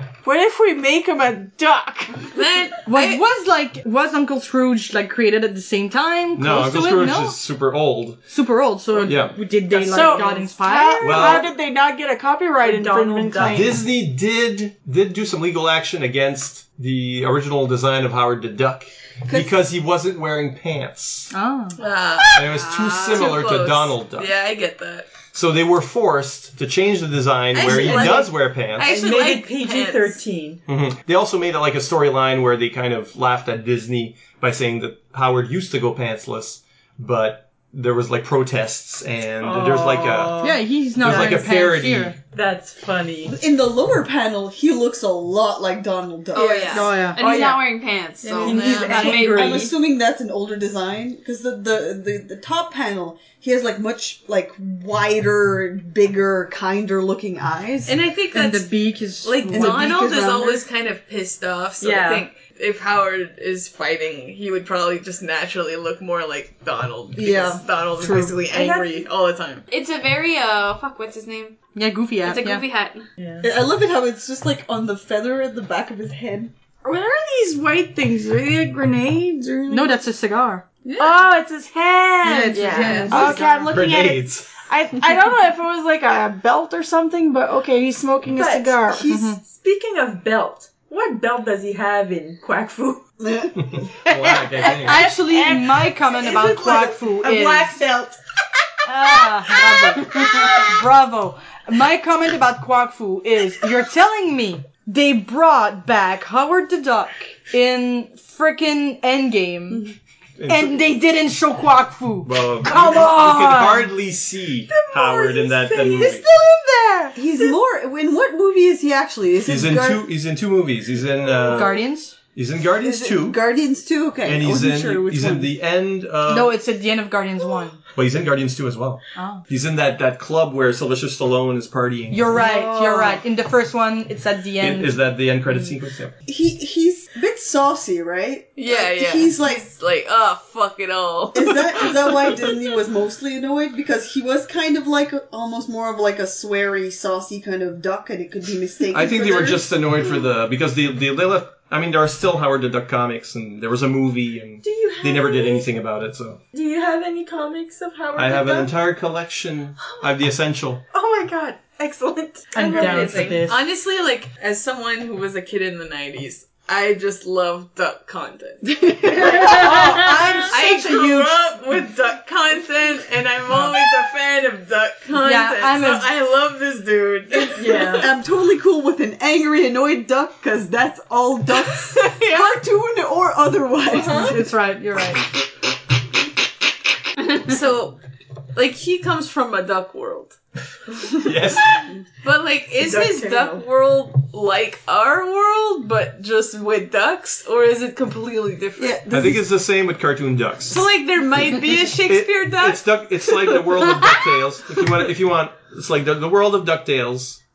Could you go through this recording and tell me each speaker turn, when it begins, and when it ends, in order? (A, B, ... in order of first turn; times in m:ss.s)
0:00.2-0:02.3 A
0:02.3-0:03.2 B
0:02.8-0:07.4 C
0:06.4-0:08.2 D
0:08.3-0:11.4 C
0:09.0-0:09.4 D
0:09.6-0:11.5 E
0:09.9-0:13.8 A
0:11.0-0:11.5 D
0:12.6-0:13.8 E
0:13.5-0:21.3 D
0:21.3-0:21.8 C
0:21.8-0:25.1 B
0:22.3-0:24.3 D
0:22.7-0:23.2 F
0:25.3-0:29.0 D
0:27.5-0:30.2 B
0:27.5-0:30.6 E
0:30.7-0:40.4 D
0:39.4-0:41.2 E
0:40.4-0:42.2 C
0:41.0-0:42.1 D
0:42.3-0:43.4 E
0:43.2-0:47.1 G
0:46.3-0:49.7 F
0:46.4-0:47.6 E
0:46.7-0:47.2 C
0:48.2-0:49.7 E
0:48.4-0:49.2 B
0:49.1-0:58.0 G
0:57.8-1:09.6 B
0:58.3-0:59.9 C
0:59.5-1:00.6 G
1:01.8-1:02.2 E
1:07.1-1:08.4 G
1:08.5-1:08.9 E
1:09.7-1:11.6 F
1:11.7-1:12.6 C
1:12.2-1:13.0 F
1:13.2-1:13.5 E
1:13.4-1:16.5 G
1:16.8-1:19.9 A
1:19.7-1:20.6 C
1:20.8-1:21.2 B
1:21.0-1:29.1 A
1:22.2-1:23.6 C
1:22.2-1:23.5 G
1:22.3-1:23.6 E
1:22.7-1:23.3 B
1:23.7-1:24.6 D
1:28.3-1:33.0 E
1:29.0-1:29.4 C
1:33.2-1:33.8 G
1:33.6-1:35.1 D
1:34.1-1:37.7 C
1:34.7-1:38.1 A
1:36.2-1:37.7 E
1:38.8-1:49.9 C
1:50.4-1:50.8 D
1:50.5-1:53.9 C
1:52.2-1:56.3 D
1:52.7-1:53.0 E
1:54.7-1:57.2 E
1:57.1-2:00.0 G
1:59.4-2:03.4 D
2:01.4-2:02.1 C
2:02.8-2:05.5 G
2:04.2-2:06.6 D
2:06.2-2:07.8 C
2:07.9-2:12.5 D
2:09.1-2:09.4 C
2:12.1-2:15.0 C
2:12.4-2:13.2 G
2:12.5-2:12.8 E
2:14.6-2:16.1 D
2:16.3-2:19.6 G
2:18.6-2:22.5 B
2:21.3-2:29.9 G
2:28.9-2:36.4 D
2:34.6-2:35.7 E
2:36.5-2:38.7 E
2:38.1-2:40.8 D
2:39.8-2:40.1 E
2:40.9-2:43.5 E
2:42.5-2:48.7 B
2:42.5-2:43.6 C
2:48.7-2:49.9 G
2:49.2-2:51.3 E
2:49.4-2:49.8 B
2:49.6-2:50.5 C
2:50.5-2:58.1 B
2:55.2-2:56.1 C
2:57.5-2:58.1 E
2:57.7-3:04.5 G
3:01.6-3:02.6 B
3:03.9-3:04.4 B
3:04.2-3:05.2 C
3:07.4-3:08.0 B
3:08.5-3:10.4 B
3:11.0-3:19.0 B
3:11.2-3:11.9 D
3:12.8-3:13.6 E
3:18.8-3:19.4 G
3:19.1-3:20.8 D
3:20.7-3:24.2 B
3:22.0-3:27.4 D